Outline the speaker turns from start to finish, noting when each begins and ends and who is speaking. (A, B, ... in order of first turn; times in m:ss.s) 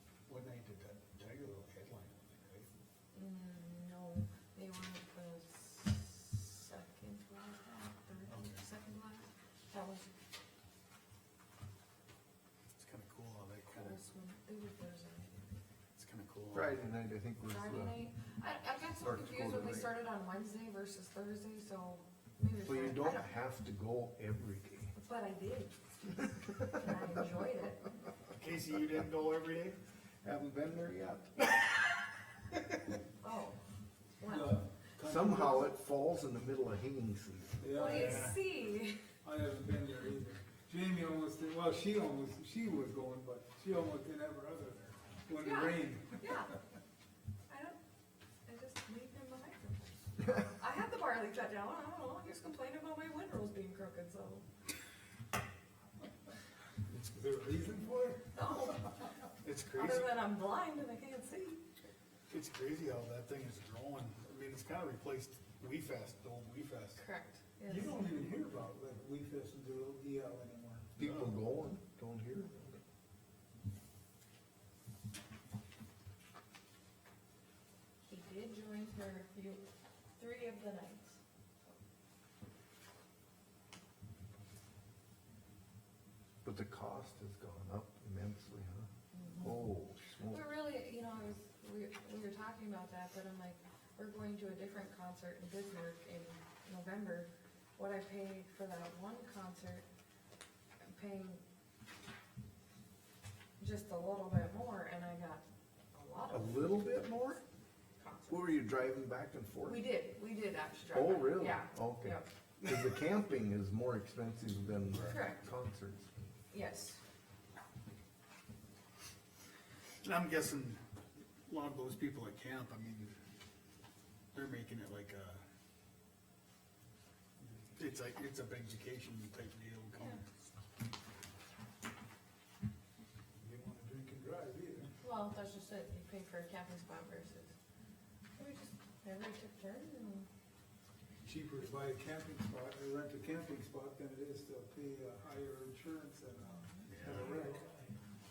0:00.3-0:02.7 A
0:03.1-0:10.1 B
0:08.3-0:08.7 A
0:12.8-0:14.0 A
0:13.7-0:15.6 B
0:15.9-0:16.8 A
0:16.5-0:18.1 C
0:17.5-0:23.3 B
0:18.9-0:20.0 C
0:22.6-0:24.9 C
0:25.0-0:28.0 B
0:28.3-0:29.8 A
0:30.2-0:31.9 C
0:33.2-0:33.6 B
0:34.2-0:34.6 B
0:34.3-0:35.7 D
0:35.0-0:37.6 C
0:37.6-0:38.3 D
0:37.6-0:39.0 B
0:37.8-0:38.4 A
0:39.2-0:46.4 D
0:45.3-0:46.6 B
0:47.5-0:47.8 B
0:48.5-0:54.4 B
0:56.9-0:58.2 D
0:58.3-0:59.1 B
0:59.4-1:00.3 A
0:59.6-1:01.6 B
1:02.3-1:07.0 A
1:06.9-1:08.1 B
1:07.7-1:10.9 D
1:11.0-1:12.8 C
1:11.0-1:11.4 A
1:18.0-1:19.6 B
1:20.2-1:21.7 B
1:26.4-1:28.9 C
1:29.1-1:29.5 B
1:29.4-1:30.5 C
1:30.2-1:39.8 B
1:40.8-1:41.4 B
1:43.6-1:46.8 B
1:46.3-1:47.4 C
1:48.0-1:48.6 B
1:48.3-1:49.9 C
1:49.6-1:52.3 B
1:50.9-1:56.1 C
1:55.0-1:55.4 B
1:56.5-1:57.0 B
2:00.0-2:00.8 A
2:01.5-2:03.1 A
2:04.3-2:05.4 A
2:07.8-2:10.2 A
2:13.4-2:14.9 D
2:15.0-2:17.5 B
2:18.4-2:20.3 B
2:21.2-2:27.6 D
2:26.7-2:27.5 B
2:26.9-2:27.4 A